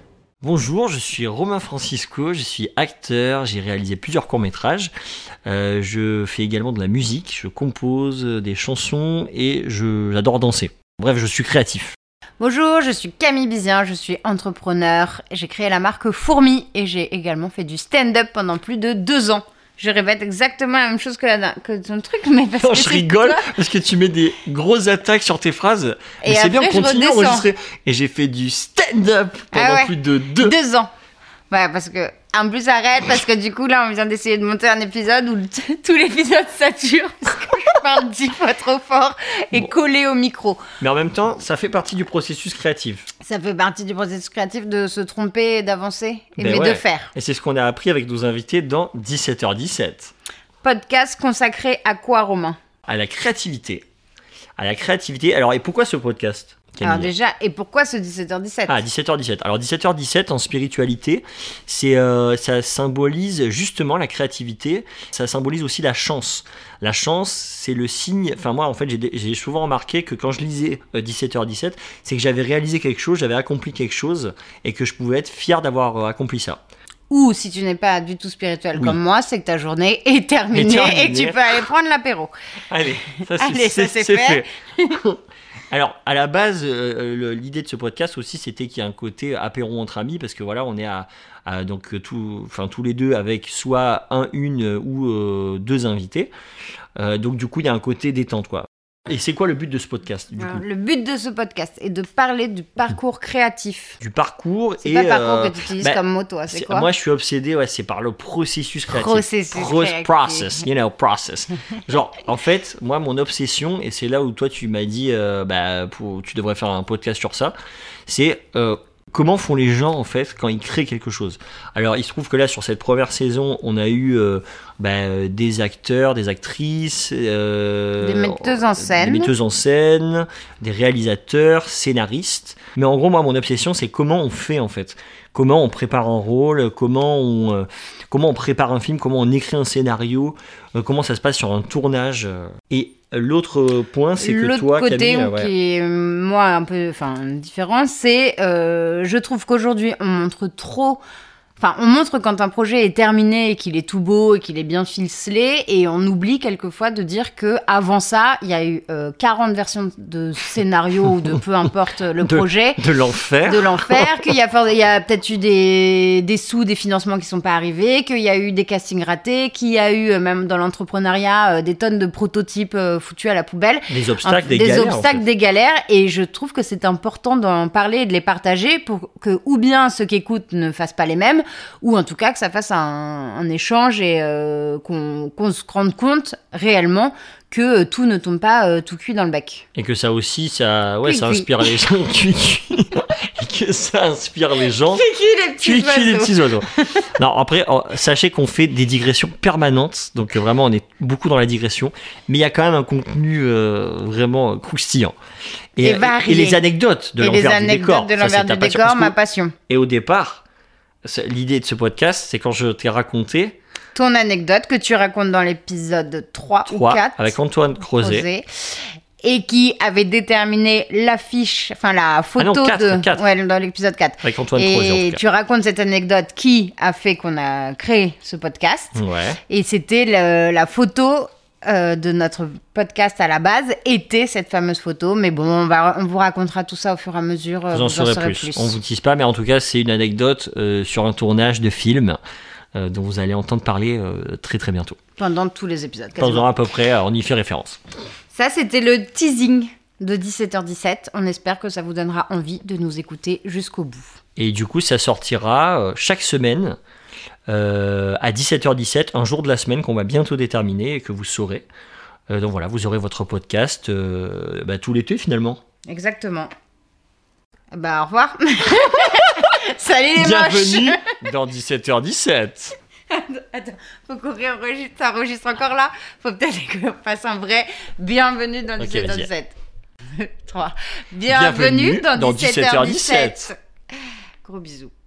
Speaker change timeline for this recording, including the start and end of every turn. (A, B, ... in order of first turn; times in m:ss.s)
0:00.4-0:04.9 A
0:05.4-0:12.0 A
0:12.4-0:23.5 B
0:22.6-0:30.5 A
0:26.2-0:27.5 B
0:29.5-0:30.9 B
0:31.5-0:40.6 B
0:40.8-0:43.1 A
0:43.2-0:47.1 B
0:46.4-0:50.1 A
0:50.6-0:52.6 B
0:52.9-0:53.8 A
0:54.6-0:57.1 A
0:56.8-0:58.8 B
0:58.7-1:16.6 A
1:17.1-1:22.3 B
1:20.5-1:21.5 A
1:22.7-1:36.3 A
1:23.3-1:25.0 B
1:37.0-1:40.6 A
1:40.4-1:44.0 B
1:44.0-1:57.5 A
1:44.8-1:46.9 B
1:48.9-1:50.7 B
1:58.1-2:25.5 A
2:08.0-2:09.3 B
2:24.2-2:31.0 B
2:31.6-2:42.8 B
2:42.2-2:44.1 A
2:43.4-3:09.6 B
2:53.9-2:55.2 A
3:09.7-3:15.1 A
3:11.0-3:11.7 B
3:14.9-3:17.0 B
3:15.6-3:25.2 A
3:25.8-3:29.1 A
3:25.8-3:26.6 B
3:27.2-3:29.5 B
3:29.7-3:30.4 A
3:31.0-3:33.6 A
3:33.9-3:48.9 B
3:36.6-3:38.2 A
3:42.4-3:43.2 A
3:44.2-3:45.2 A
3:48.9-3:49.4 A
3:49.5-3:58.8 B
3:57.7-4:02.2 A
4:02.7-4:05.0 A
4:05.2-4:06.5 B
4:06.2-4:07.8 A
4:08.3-4:14.2 B
4:14.4-4:16.8 A
4:17.5-4:21.6 A
4:22.3-4:25.6 A
4:25.9-4:26.5 B
4:27.7-4:31.0 B
4:30.2-4:32.7 A
4:33.1-4:39.6 B
4:38.8-4:39.3 A
4:40.2-4:43.6 B
4:41.3-4:43.5 A
4:44.4-4:44.9 B